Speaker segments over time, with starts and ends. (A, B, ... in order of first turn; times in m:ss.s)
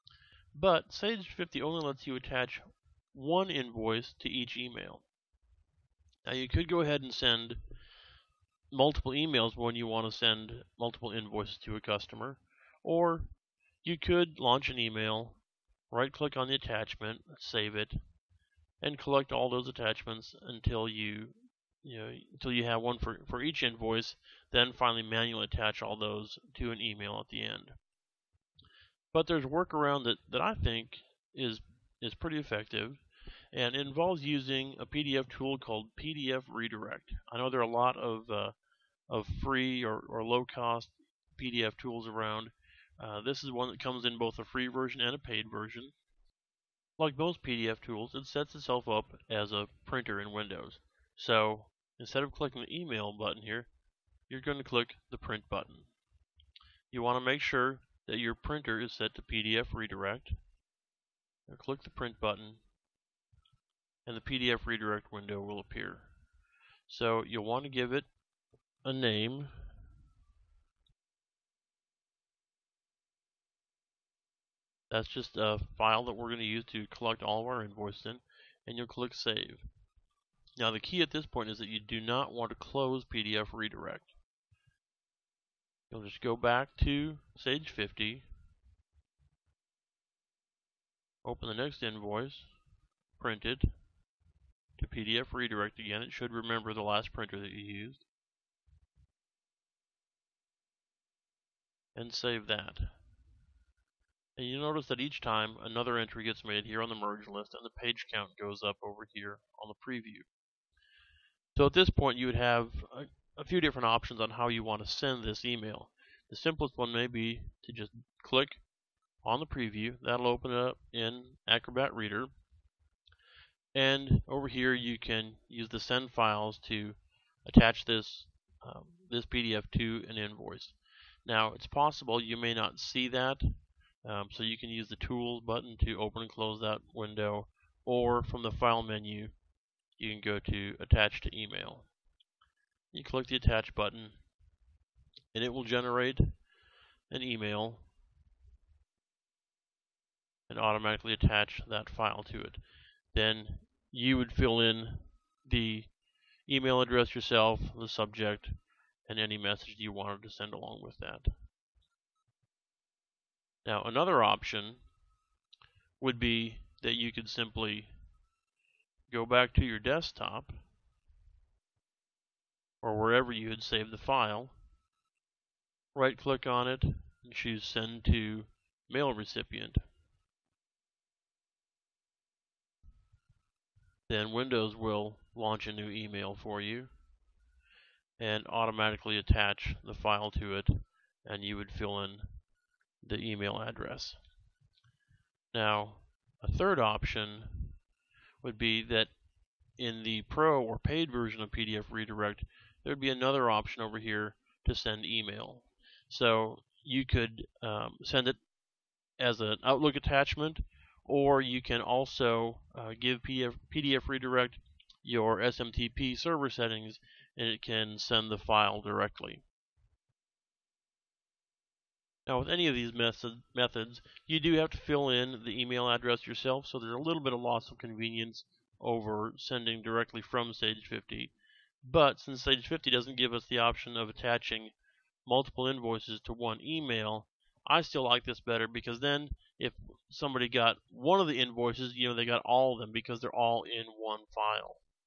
0:00.5-0:05.0 A
0:06.2-0:07.6 A
0:08.7-0:13.3 A
0:13.8-0:18.0 A
0:18.8-0:27.8 A
0:29.1-0:38.5 A
0:39.1-0:45.9 A
0:47.0-0:53.7 A
0:54.3-0:55.9 A
0:56.9-1:00.4 A
1:01.5-1:02.6 A
1:04.1-1:06.1 A
1:06.9-1:08.1 A
1:08.8-1:09.6 A
1:14.9-1:19.6 A
1:20.6-1:24.1 A
1:25.9-1:28.3 A
1:31.2-1:32.5 A
1:33.2-1:33.7 A
1:34.8-1:38.0 A
1:42.0-1:42.9 A
1:44.4-1:50.3 A
1:51.6-1:58.6 A
1:59.2-2:02.3 A
2:03.8-2:13.5 A
2:14.0-2:19.3 A
2:20.0-2:21.9 A
2:22.9-2:24.2 A
2:25.3-2:26.4 A
2:27.1-2:27.9 A
2:30.5-2:32.6 A
2:33.1-2:35.9 A
2:36.5-2:41.3 A
2:43.6-2:44.8 A
2:46.0-2:47.9 A
2:49.1-2:50.6 A
2:52.8-2:54.5 A
2:56.0-2:59.8 A
3:04.1-3:06.9 A
3:08.2-3:12.3 A
3:13.0-3:14.2 A
3:15.5-3:17.8 A
3:18.4-3:19.1 A
3:19.8-3:28.4 A
3:29.2-3:39.4 A
3:42.3-3:54.7 A
3:55.3-4:04.8 A